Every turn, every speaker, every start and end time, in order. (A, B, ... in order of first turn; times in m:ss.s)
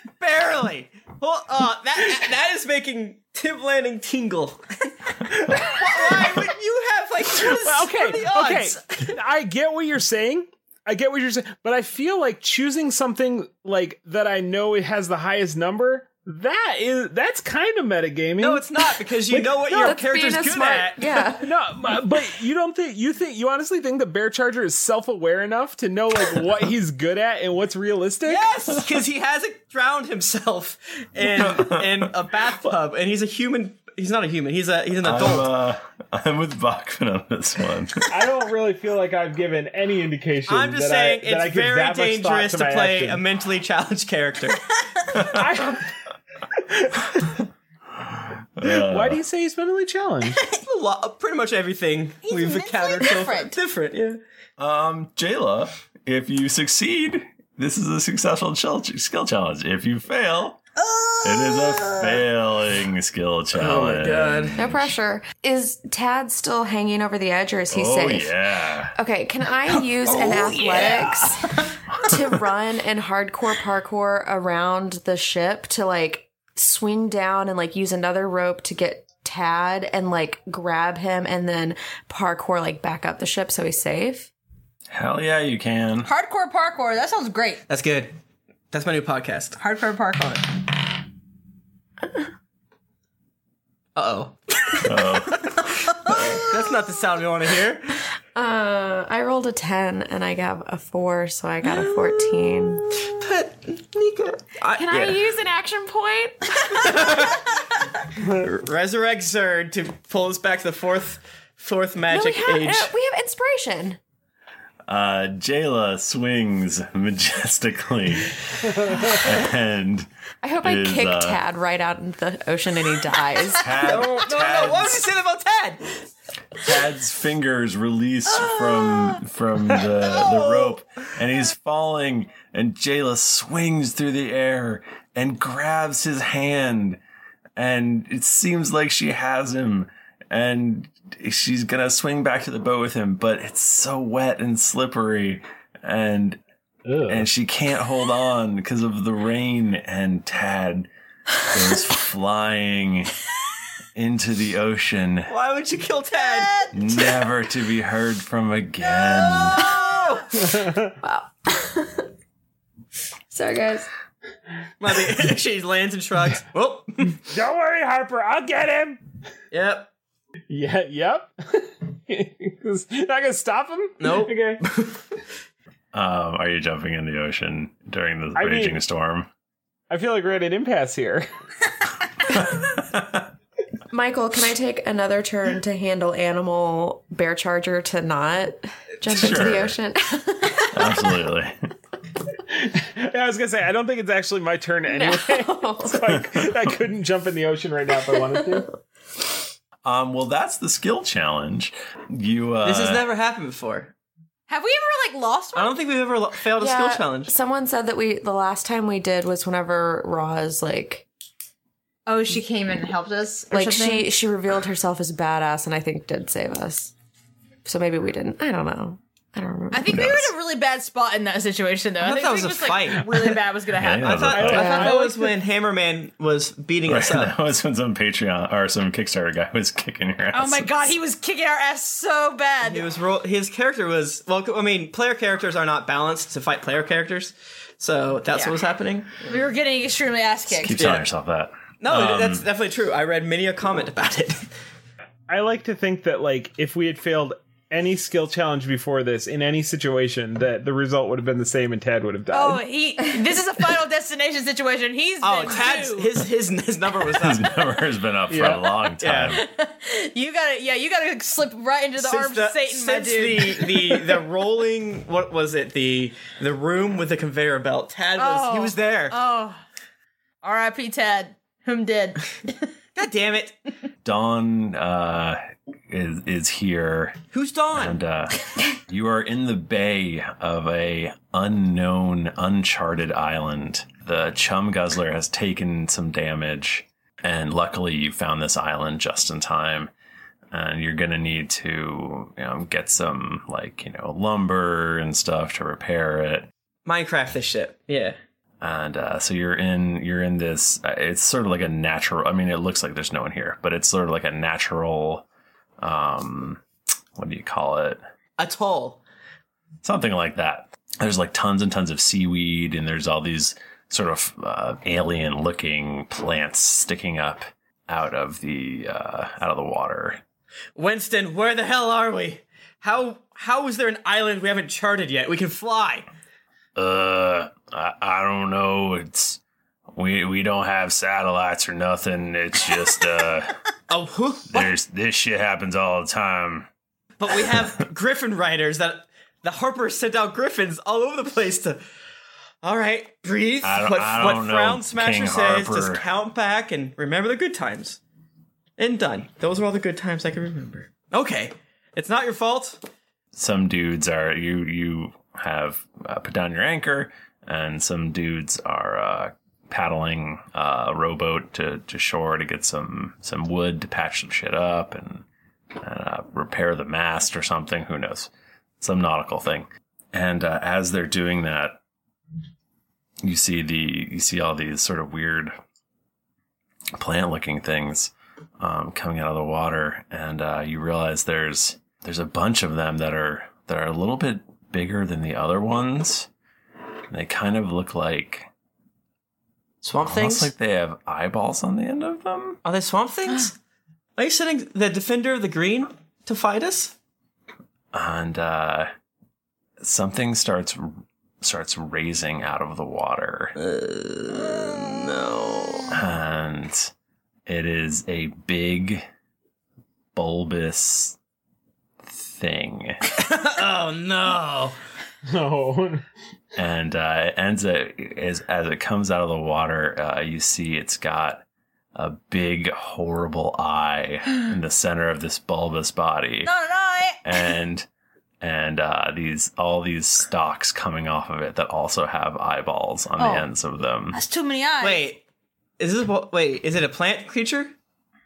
0:00.2-0:04.9 A
0:05.5-0:09.0 A
0:07.4-0:20.0 B
0:18.4-0:21.2 A
0:19.8-0:21.5 C
0:21.4-0:28.5 B
0:28.3-0:35.5 A
0:31.2-0:32.1 D
0:35.0-0:38.2 D
0:38.1-0:43.2 B
0:40.5-0:44.7 A
0:45.1-0:45.4 D
0:45.3-0:45.9 B
0:46.6-0:47.2 B
0:48.6-0:49.2 D
0:48.6-0:50.4 B
0:50.6-0:54.2 A
0:52.3-0:53.6 E
0:54.6-1:00.6 D
1:00.8-1:02.2 E
1:01.2-1:04.6 D
1:03.5-1:04.6 A
1:04.6-1:08.4 C
1:07.7-1:09.0 D
1:09.0-1:11.5 C
1:09.7-1:12.1 E
1:12.0-1:24.3 C
1:24.9-1:26.1 D
1:26.0-1:27.6 E
1:27.7-1:28.1 A
1:28.7-1:29.6 A
1:29.6-1:30.6 E
1:34.0-1:34.8 A
1:34.8-1:35.5 D
1:35.7-1:36.4 E
1:36.1-1:38.0 A
1:38.4-1:42.9 C
1:41.7-1:45.2 A
1:44.8-1:46.5 C
1:46.7-1:47.6 A
1:48.4-1:52.9 A
1:52.1-1:54.0 C
1:54.9-2:00.1 D
2:00.4-2:03.6 C
2:00.6-2:01.4 D
2:03.6-2:05.1 D
2:03.8-2:06.1 A
2:06.6-2:17.0 D
2:08.4-2:09.2 E
2:17.6-2:26.4 D
2:26.8-2:27.3 B
2:27.1-2:30.9 D
2:31.5-2:33.1 D
2:34.0-2:35.3 D
2:35.3-2:36.5 A
2:36.2-2:36.9 E
2:36.7-2:39.7 D
2:39.3-2:39.7 E
2:39.6-2:40.3 A
2:40.5-2:40.9 B
2:41.0-2:42.1 C
2:43.3-2:43.9 C
2:44.8-2:47.2 A
2:47.3-2:49.0 B
2:49.5-2:49.9 A
2:50.5-2:54.6 B
2:54.0-2:55.0 A
2:55.9-2:59.3 D
2:58.4-2:58.8 B
2:59.9-3:01.3 B
3:02.6-3:03.2 D
3:03.9-3:11.0 C
3:09.1-3:09.8 D
3:10.7-3:11.5 D
3:12.6-3:18.7 B
3:14.9-3:16.1 C
3:16.1-3:16.4 D
3:18.1-3:18.6 C
3:19.8-3:23.1 D
3:22.6-3:23.9 A
3:24.5-3:25.8 E
3:25.5-3:27.3 A
3:26.6-3:31.1 C
3:32.1-3:34.1 E
3:33.5-3:36.9 C
3:37.6-3:40.1 C
3:39.7-3:45.0 E
3:39.9-3:40.3 D
3:42.0-3:43.3 A
3:43.7-3:44.8 D
3:44.0-3:47.3 A
3:44.4-3:45.3 B
3:44.5-3:44.9 C
3:46.9-3:50.9 D
3:50.3-3:52.8 E
3:52.6-3:59.4 A
3:59.2-4:00.8 E
4:00.5-4:02.4 D
4:00.8-4:01.0 A
4:01.8-4:04.5 A
4:05.3-4:12.6 B
4:12.3-4:16.1 E
4:15.2-4:17.4 A
4:17.1-4:19.5 D
4:18.3-4:18.7 B
4:19.0-4:19.4 A
4:19.3-4:24.2 E
4:22.0-4:29.2 A
4:28.2-4:29.6 E
4:30.4-4:32.7 E
4:33.0-4:33.6 A
4:34.0-4:37.2 D
4:37.3-4:38.0 A
4:37.7-4:49.9 D
4:50.5-4:56.5 D
4:56.9-4:58.2 A
4:58.6-5:05.2 D
5:05.8-5:06.6 D
5:07.2-5:08.0 D
5:08.4-5:09.0 A
5:09.8-5:20.2 D
5:20.8-5:26.1 A
5:26.8-5:29.4 D
5:29.9-5:33.5 D
5:33.9-5:34.7 A
5:34.5-5:36.7 D
5:37.2-5:41.8 A
5:42.6-5:48.0 A
5:43.6-5:46.1 D
5:48.8-5:52.8 A
5:53.3-6:05.2 D
6:05.8-6:11.8 D
6:13.2-6:15.5 D
6:17.0-6:26.3 D
6:27.1-6:28.5 D
6:29.8-6:30.5 A
6:30.0-6:32.6 D
6:32.6-6:33.6 A
6:34.2-6:36.9 A
6:37.9-6:38.9 D
6:39.8-6:43.6 D
6:43.6-6:45.9 A
6:45.9-6:46.9 D
6:47.5-6:49.0 D
6:50.2-6:51.2 D
6:52.0-6:53.0 D
6:53.1-6:54.8 A
6:55.3-6:56.0 B
6:56.6-7:01.4 D
7:02.0-7:06.5 D
7:06.4-7:07.2 E
7:07.2-7:07.9 D
7:08.4-7:14.2 D
7:13.2-7:13.5 E
7:14.1-7:15.1 E
7:14.8-7:15.2 A
7:15.8-7:17.7 A